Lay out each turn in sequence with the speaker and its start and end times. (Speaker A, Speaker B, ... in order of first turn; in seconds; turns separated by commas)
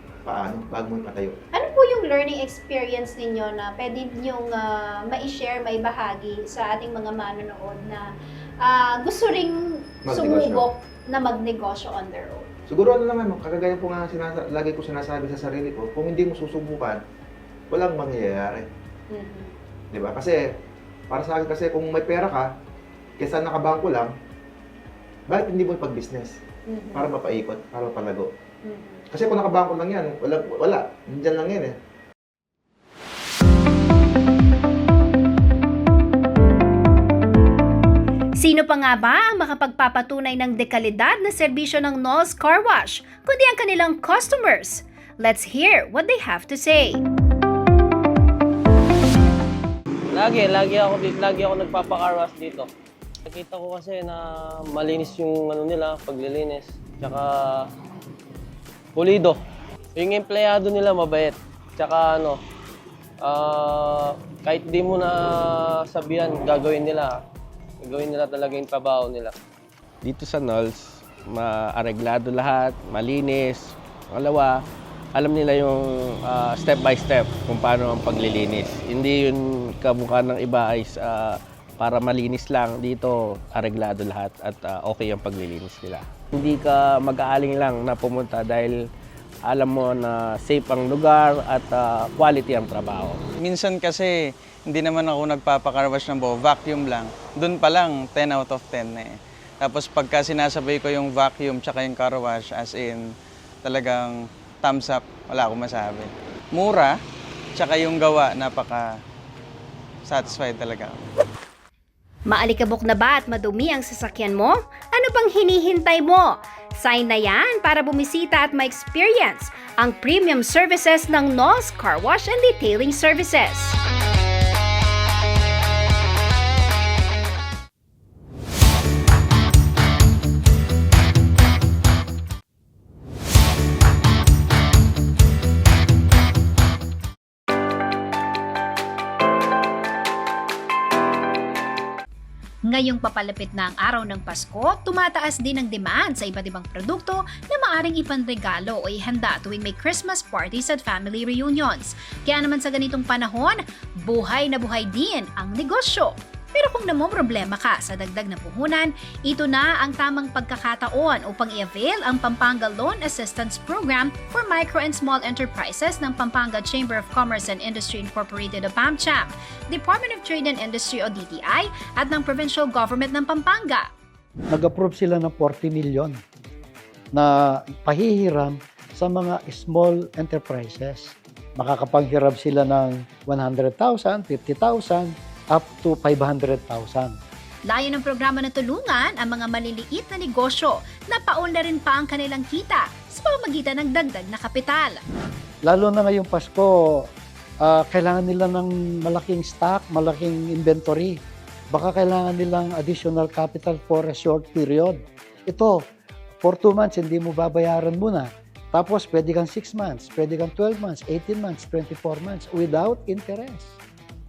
Speaker A: 0.2-1.4, Speaker B: 1.5-12.5, Speaker A: 10.0-10.6, Speaker A: 12.7-17.0, Speaker A: 17.7-18.7, Speaker B: 19.1-19.5, Speaker A: 19.9-20.4, Speaker A: 21.1-22.5, Speaker A: 23.2-24.1, Speaker A: 25.3-26.4, Speaker B: 26.7-27.1, Speaker A: 26.9-28.3, Speaker B: 28.6-29.1, Speaker A: 29.1-31.7, Speaker B: 38.4-47.0, Speaker C: 50.1-52.7, Speaker C: 53.3-57.7, Speaker C: 58.9-59.4, Speaker C: 60.0-62.4, Speaker C: 63.2-67.2, Speaker C: 67.8-69.3, Speaker D: 70.0-74.6, Speaker D: 75.1-88.8, Speaker D: 89.5-93.2, Speaker E: 93.4-103.1, Speaker E: 103.6-106.9, Speaker E: 107.5-108.9, Speaker E: 110.0-111.0, Speaker B: 112.3-123.8, Speaker B: 142.7-173.9, Speaker F: 174.5-176.2, Speaker F: 177.1-187.2, Speaker B: 187.7-195.0, Speaker F: 195.6-197.1, Speaker F: 197.6-201.2, Speaker F: 201.7-205.8, Speaker F: 206.4-213.8